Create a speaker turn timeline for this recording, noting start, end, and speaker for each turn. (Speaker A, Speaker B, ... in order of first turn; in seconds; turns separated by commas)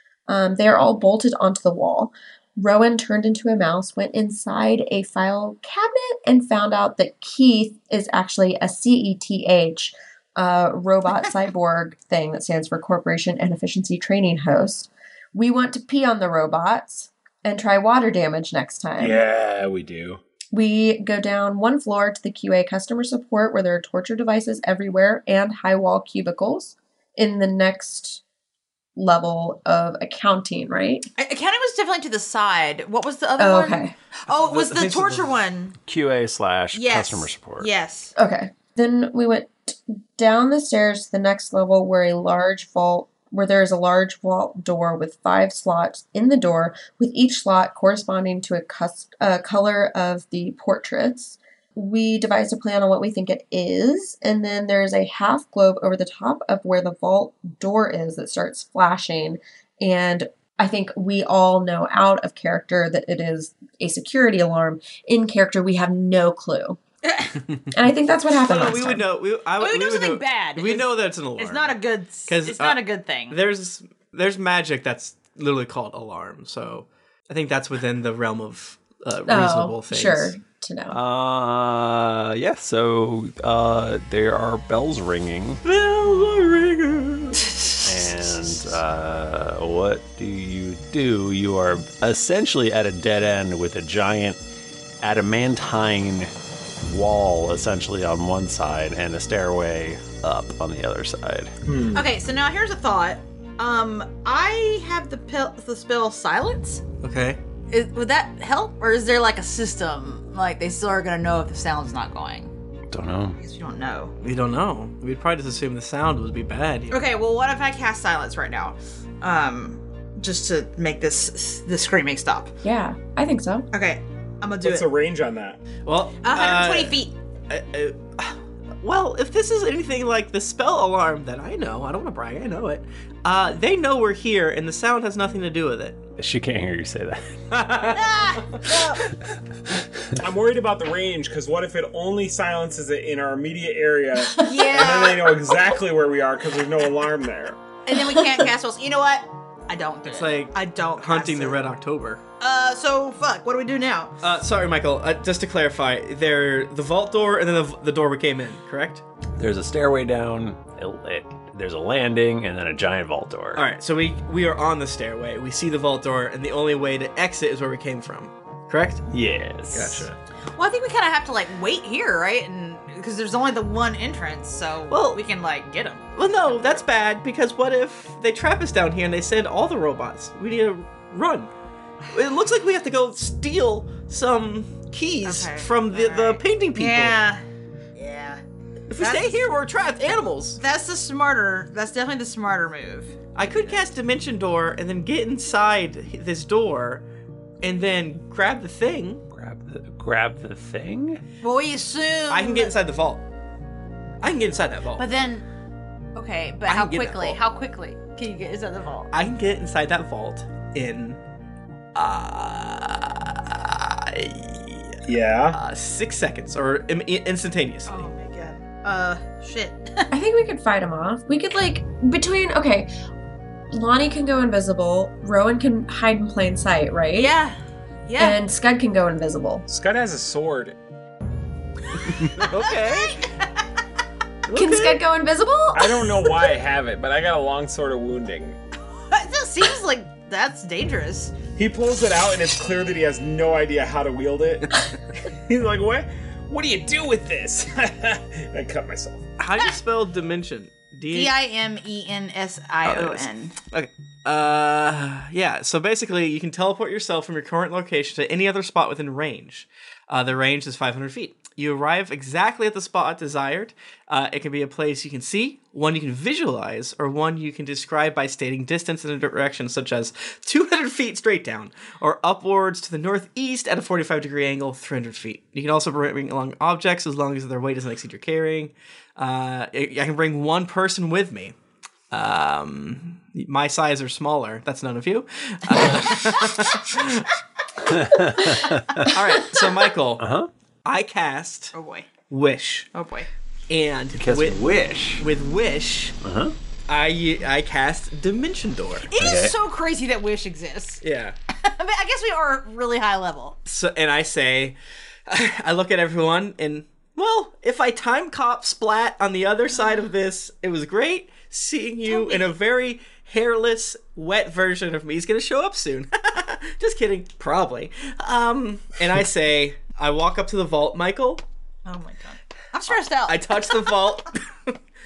Speaker A: 0.3-19.2, Speaker B: 19.0-20.2, Speaker A: 20.5-28.2, Speaker A: 29.0-31.1, Speaker C: 31.2-35.7, Speaker A: 33.4-33.9, Speaker D: 34.3-35.4, Speaker E: 35.9-37.7, Speaker C: 36.7-38.1, Speaker A: 38.2-66.8, Speaker A: 67.7-69.1, Speaker D: 68.4-80.4, Speaker C: 69.6-73.4, Speaker A: 79.3-81.0, Speaker E: 80.9-85.6, Speaker D: 85.7-87.4, Speaker E: 87.8-94.4, Speaker E: 95.0-96.3, Speaker E: 96.8-101.5, Speaker B: 101.7-102.0, Speaker C: 101.9-106.8, Speaker D: 107.0-107.4, Speaker C: 107.7-112.5, Speaker E: 112.9-113.4, Speaker C: 113.4-114.1, Speaker D: 114.2-117.0, Speaker C: 116.9-122.5, Speaker A: 122.6-123.7, Speaker C: 123.7-124.9, Speaker B: 124.6-125.6, Speaker D: 125.8-136.0, Speaker C: 126.2-127.1, Speaker E: 136.2-137.3, Speaker D: 137.5-138.2, Speaker C: 137.9-139.0, Speaker B: 140.2-147.6, Speaker C: 144.4-145.4, Speaker C: 147.9-151.7, Speaker D: 150.1-152.2, Speaker C: 152.4-154.2, Speaker D: 154.2-159.0, Speaker E: 159.4-163.7, Speaker D: 163.6-169.0, Speaker E: 169.1-170.1, Speaker D: 169.7-170.2, Speaker C: 170.6-176.1, Speaker D: 174.9-175.2, Speaker D: 176.2-181.5, Speaker D: 182.1-187.2, Speaker C: 185.2-187.4, Speaker C: 188.0-188.4, Speaker D: 188.9-190.6, Speaker C: 189.0-189.4, Speaker C: 190.6-193.8, Speaker D: 193.3-197.1, Speaker D: 197.6-199.2, Speaker E: 199.3-201.2, Speaker C: 201.4-202.8, Speaker D: 202.3-203.2, Speaker D: 204.2-205.1, Speaker C: 205.0-205.4, Speaker C: 206.2-209.1, Speaker D: 206.7-207.4, Speaker D: 209.1-211.2, Speaker D: 211.9-218.0, Speaker B: 215.1-215.6, Speaker C: 217.9-220.0, Speaker A: 220.1-222.9, Speaker A: 223.7-227.3, Speaker C: 227.2-227.6, Speaker C: 228.1-228.4, Speaker A: 228.2-229.7, Speaker B: 229.7-230.8, Speaker D: 232.4-233.2, Speaker C: 232.5-233.2, Speaker D: 234.5-235.0, Speaker A: 234.5-235.9, Speaker B: 235.7-238.6, Speaker C: 239.1-241.4, Speaker B: 241.6-249.2, Speaker D: 249.4-251.3, Speaker C: 251.1-253.6, Speaker D: 252.8-281.6, Speaker D: 282.1-287.3, Speaker E: 287.9-289.2, Speaker D: 289.1-290.2, Speaker E: 290.2-290.5, Speaker D: 290.9-291.7, Speaker C: 291.7-292.2, Speaker D: 292.3-292.9, Speaker C: 292.9-293.3, Speaker D: 293.7-294.6, Speaker E: 294.1-295.2, Speaker D: 295.2-296.2, Speaker E: 296.2-296.6, Speaker D: 296.9-299.1, Speaker C: 299.1-301.0, Speaker E: 299.2-299.6, Speaker D: 301.0-301.4, Speaker C: 301.6-303.6, Speaker D: 303.7-321.4, Speaker C: 312.1-312.5, Speaker C: 321.9-323.9, Speaker D: 322.9-324.7